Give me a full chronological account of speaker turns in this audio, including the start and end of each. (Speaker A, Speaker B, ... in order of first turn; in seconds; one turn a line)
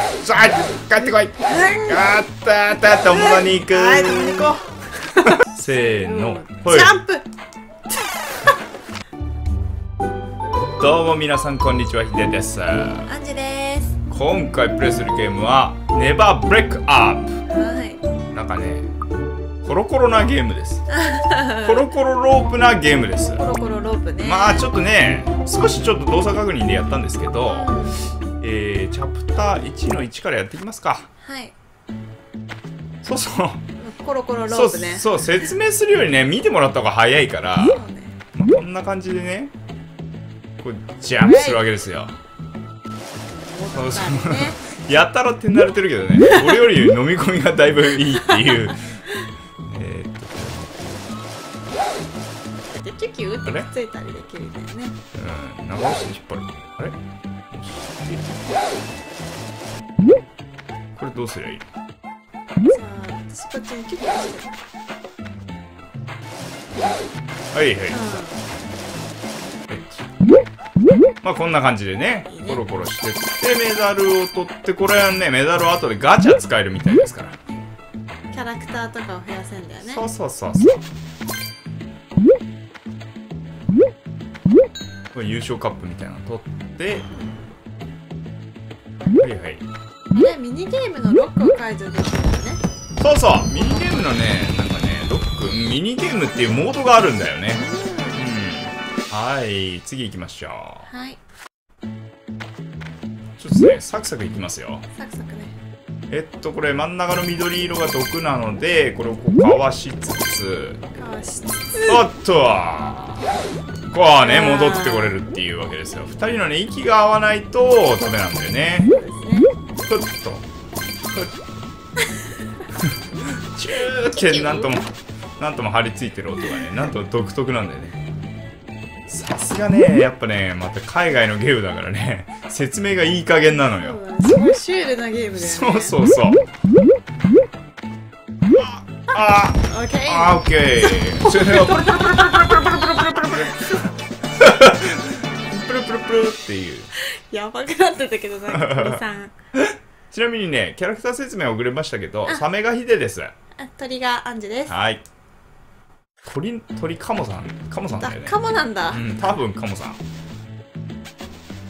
Speaker A: 0.2-4.6
Speaker B: 0.9-2.2
Speaker B: 2.9-7.2
Speaker A: 5.3-7.0
Speaker B: 7.9-8.3
Speaker A: 10.8-13.1
Speaker B: 13.0-14.0
Speaker A: 14.1-17.4
Speaker B: 17.5-18.0
Speaker A: 18.3-18.9
Speaker A: 19.6-20.9
Speaker B: 20.9-21.9
Speaker A: 21.5-23.4
Speaker B: 23.2-24.7
Speaker A: 24.2-27.7
Speaker B: 27.4-28.1
Speaker A: 28.4-31.1
Speaker B: 31.2-31.5
Speaker A: 33.0-33.6
Speaker B: 33.8-35.5
Speaker A: 34.5-37.8
Speaker B: 37.6-38.2
Speaker A: 38.3-39.5
Speaker A: 40.6-42.1
Speaker B: 41.2-41.8
Speaker B: 43.5-44.6
Speaker A: 43.7-48.8
Speaker B: 46.3-46.6
Speaker A: 49.6-51.1
Speaker B: 52.7-55.0
Speaker A: 55.1-57.0
Speaker A: 57.5-58.3
Speaker A: 61.0-61.6
Speaker B: 62.6-64.5
Speaker A: 67.5-68.2
Speaker B: 67.9-68.4
Speaker A: 69.7-70.0
Speaker A: 71.2-77.4
Speaker B: 72.3-72.6
Speaker B: 78.3-80.0
Speaker A: 79.8-80.8
Speaker A: 85.1-87.1
Speaker B: 87.1-87.4
Speaker A: 89.2-89.6
Speaker B: 90.1-92.6
Speaker A: 93.0-100.8
Speaker B: 93.5-94.0
Speaker B: 97.5-98.2
Speaker B: 100.8-101.2
Speaker A: 103.4-104.8
Speaker B: 104.9-105.5
Speaker A: 106.1-110.8
Speaker B: 110.9-112.0
Speaker A: 111.8-113.3
Speaker A: 113.9-118.9
Speaker B: 114.2-115.2
Speaker B: 118.8-119.5
Speaker A: 119.8-120.5
Speaker A: 123.5-124.8
Speaker B: 123.8-124.8
Speaker A: 125.4-128.0
Speaker A: 129.1-134.0
Speaker B: 133.5-135.9
Speaker A: 135.4-136.4
Speaker A: 138.5-143.5
Speaker B: 139.6-143.8
Speaker A: 144.4-146.9
Speaker B: 146.9-149.3
Speaker A: 148.5-149.0
Speaker A: 149.6-153.3
Speaker B: 153.6-154.8
Speaker A: 154.7-155.0
Speaker A: 156.2-158.4
Speaker B: 158.0-159.3
Speaker A: 158.9-160.0